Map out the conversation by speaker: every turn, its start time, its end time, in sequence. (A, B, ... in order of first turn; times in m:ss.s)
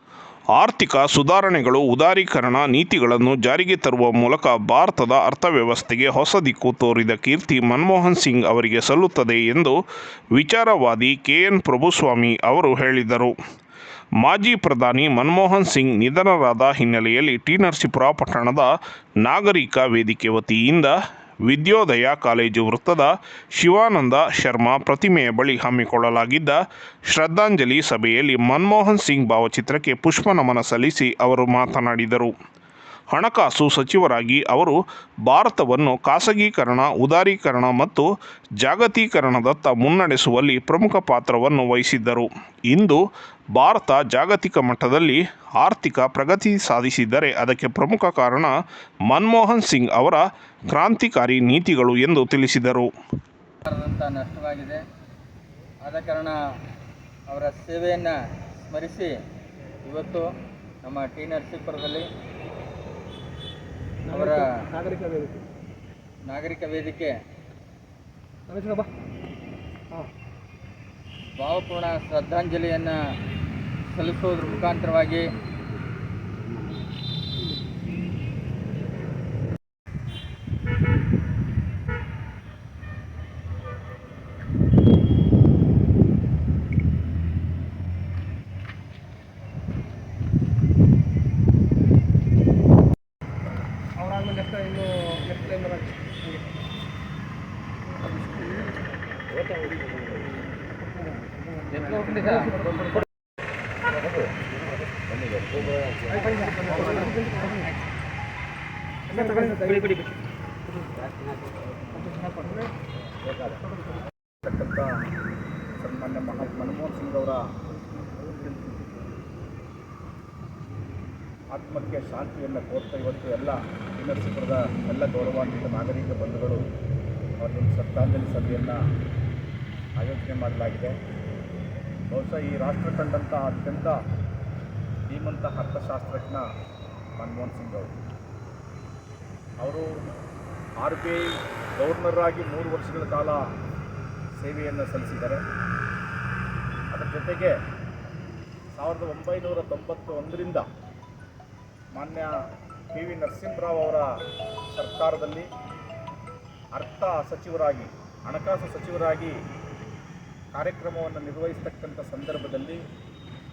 0:00.6-0:09.8 A
0:10.3-0:13.4 A
0:14.2-0:18.7 A
0:19.2-0:20.9 A
0:21.5-0:32.3 A
0:33.1-0:38.1 A
0:38.6-0:43.0 A
0:43.6-0:48.5 A
0:49.1-0:52.9 A
0:53.6-0:54.8 B
0:55.8-0:56.4 B
0:57.3-0:58.1 B
0:58.7-0:59.1 B
0:59.8-1:00.2 B
1:00.8-1:02.1 B
1:04.1-1:04.5 B
1:04.7-1:05.4 C
1:06.2-1:07.2 B
1:08.5-1:08.9 C
1:11.4-1:12.9 B
1:13.9-1:15.3 B
1:34.0-1:36.4 C
1:41.7-1:42.5 C
1:41.9-1:42.3 B
1:46.3-1:47.5 C
1:49.1-1:50.0 C
1:54.4-1:54.9 D
1:55.8-1:57.4 D
2:01.5-2:06.6 D
2:07.4-2:08.8 D
2:10.0-2:10.9 D
2:12.1-2:14.0 D
2:15.1-2:16.4 D
2:17.2-2:18.0 D
2:19.6-2:19.8 D
2:20.8-2:21.2 D
2:21.8-2:23.4 D
2:24.4-2:25.4 D
2:26.9-2:27.5 D
2:28.7-2:30.6 D
2:31.9-2:32.3 D
2:32.9-2:34.0 D
2:34.7-2:35.5 D
2:36.7-2:39.3 D
2:40.5-2:42.8 D